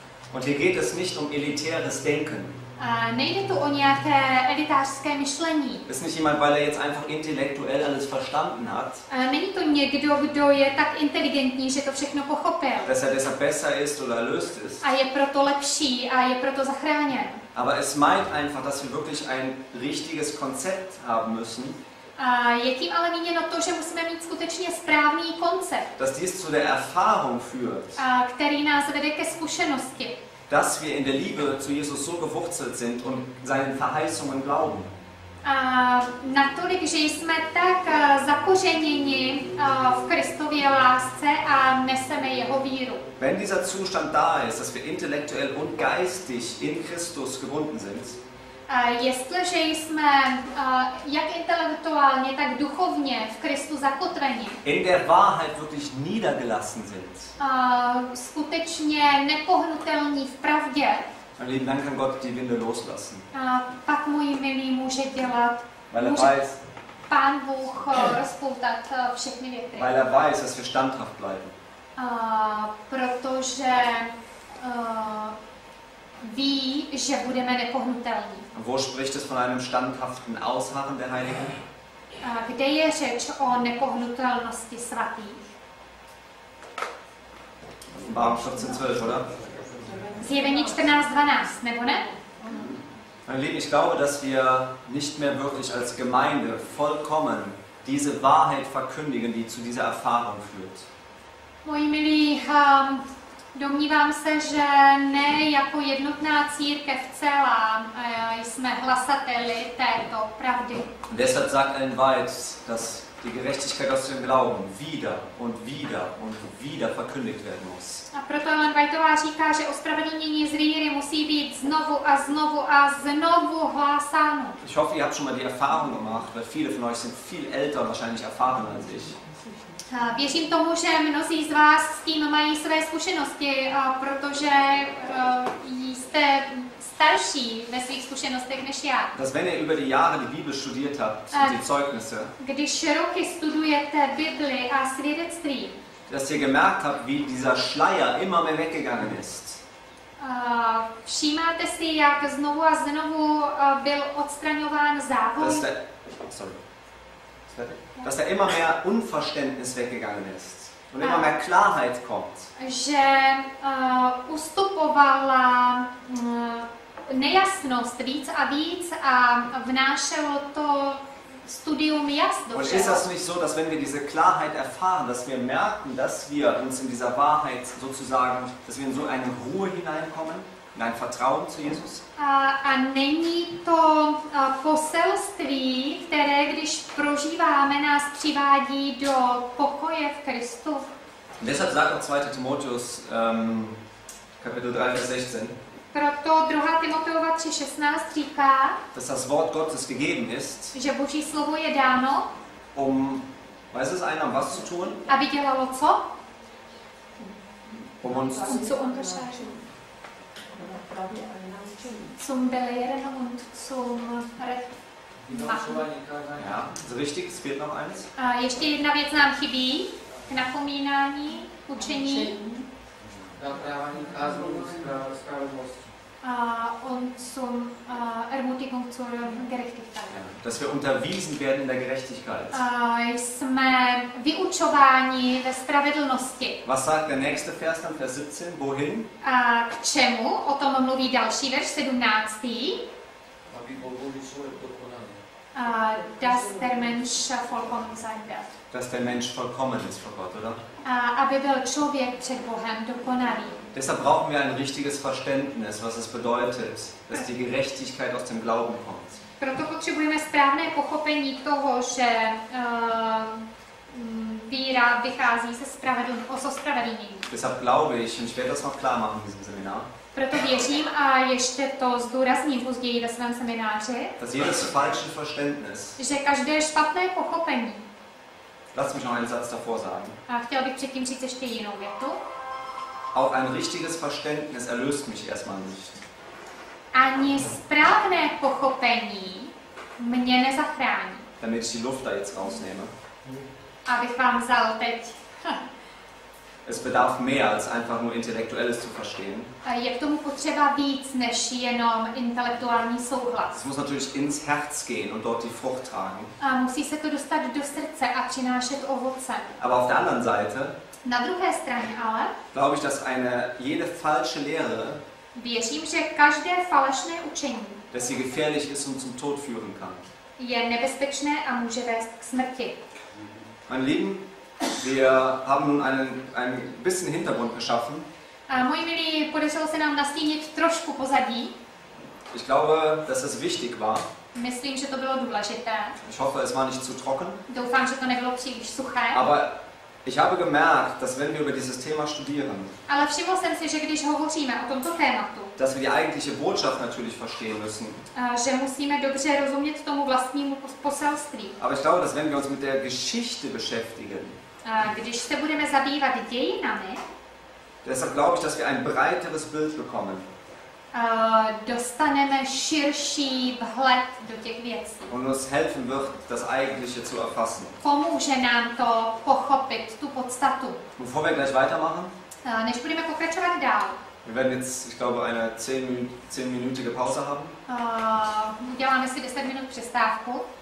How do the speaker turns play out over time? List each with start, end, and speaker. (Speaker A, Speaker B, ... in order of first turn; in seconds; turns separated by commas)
Speaker A: 0.3-2.6, Speaker B: 2.8-5.9, Speaker A: 5.9-9.0, Speaker B: 9.1-12.9, Speaker A: 12.8-14.9, Speaker B: 14.8-17.4, Speaker A: 17.5-21.8, Speaker B: 22.2-25.9, Speaker A: 26.0-28.0, Speaker B: 28.0-30.1, Speaker A: 30.5-34.9, Speaker B: 35.4-43.1, Speaker A: 43.2-48.2, Speaker B: 48.7-54.6, Speaker A: 54.6-57.3, Speaker B: 57.4-61.1, Speaker A: 61.4-63.2, Speaker B: 63.3-66.3, Speaker A: 65.9-66.6, Speaker B: 67.1-69.9, Speaker A: 69.8-71.6, Speaker B: 72.0-75.4, Speaker B: 76.2-78.5, Speaker A: 78.5-81.6, Speaker B: 82.2-85.4, Speaker A: 87.9-89.5, Speaker C: 89.8-90.9, Speaker B: 90.2-92.0, Speaker C: 92.2-92.8, Speaker A: 93.3-100.9, Speaker B: 101.6-110.9, Speaker A: 111.1-118.0, Speaker B: 118.1-124.6, Speaker A: 124.6-129.2, Speaker B: 129.9-139.1, Speaker A: 139.1-142.3, Speaker B: 141.3-141.6, Speaker B: 142.4-145.8, Speaker A: 146.1-149.6, Speaker B: 150.2-155.7, Speaker A: 155.4-156.6, Speaker A: 157.5-162.5, Speaker B: 161.0-161.4, Speaker B: 162.6-173.1, Speaker A: 172.5-182.0, Speaker B: 182.2-190.9, Speaker A: 191.4-193.8, Speaker A: 194.4-195.6, Speaker B: 195.9-198.8, Speaker A: 198.9-200.7, Speaker B: 200.7-202.3, Speaker A: 202.7-205.0, Speaker B: 205.1-206.1, Speaker A: 208.0-208.6, Speaker C: 208.1-209.5, Speaker B: 208.3-209.5, Speaker C: 210.5-212.2, Speaker B: 212.2-214.7, Speaker D: 215.2-216.7, Speaker B: 215.3-215.8, Speaker A: 216.4-218.1, Speaker B: 218.2-222.4, Speaker D: 223.4-225.9, Speaker B: 226.2-230.2, Speaker A: 230.1-232.6, Speaker B: 232.5-236.6, Speaker A: 236.6-239.1, Speaker B: 239.2-242.8, Speaker D: 243.5-245.2, Speaker B: 245.5-248.5, Speaker A: 248.7-250.6, Speaker B: 250.8-253.6, Speaker A: 253.7-259.2, Speaker B: 259.4-267.3, Speaker A: 267.3-269.9, Speaker B: 270.1-274.1, Speaker A: 274.2-276.0, Speaker B: 276.0-277.9, Speaker A: 278.7-280.2, Speaker B: 280.3-282.2, Speaker A: 283.1-286.0, Speaker B: 286.9-291.3, Speaker A: 291.4-292.9, Speaker B: 293.9-295.6, Speaker A: 296.6-299.5, Speaker B: 299.6-303.6, Speaker A: 303.5-306.3, Speaker B: 306.4-309.5, Speaker A: 309.6-310.8, Speaker B: 311.1-312.3, Speaker A: 312.5-315.0, Speaker B: 315.4-317.8, Speaker A: 317.9-320.0, Speaker B: 320.4-322.8, Speaker A: 323.7-328.1, Speaker B: 328.5-331.5, Speaker A: 332.3-334.1, Speaker B: 334.3-336.0, Speaker A: 336.0-337.4, Speaker B: 337.5-339.2, Speaker A: 339.1-342.7, Speaker B: 342.9-345.5, Speaker A: 345.6-348.0, Speaker B: 348.1-351.6, Speaker A: 351.6-354.4, Speaker B: 354.6-357.0, Speaker A: 357.8-360.3, Speaker B: 360.9-365.1, Speaker A: 365.1-367.8, Speaker B: 367.8-370.8, Speaker A: 371.0-372.1, Speaker B: 372.4-374.0, Speaker A: 374.2-377.6, Speaker B: 377.7-380.4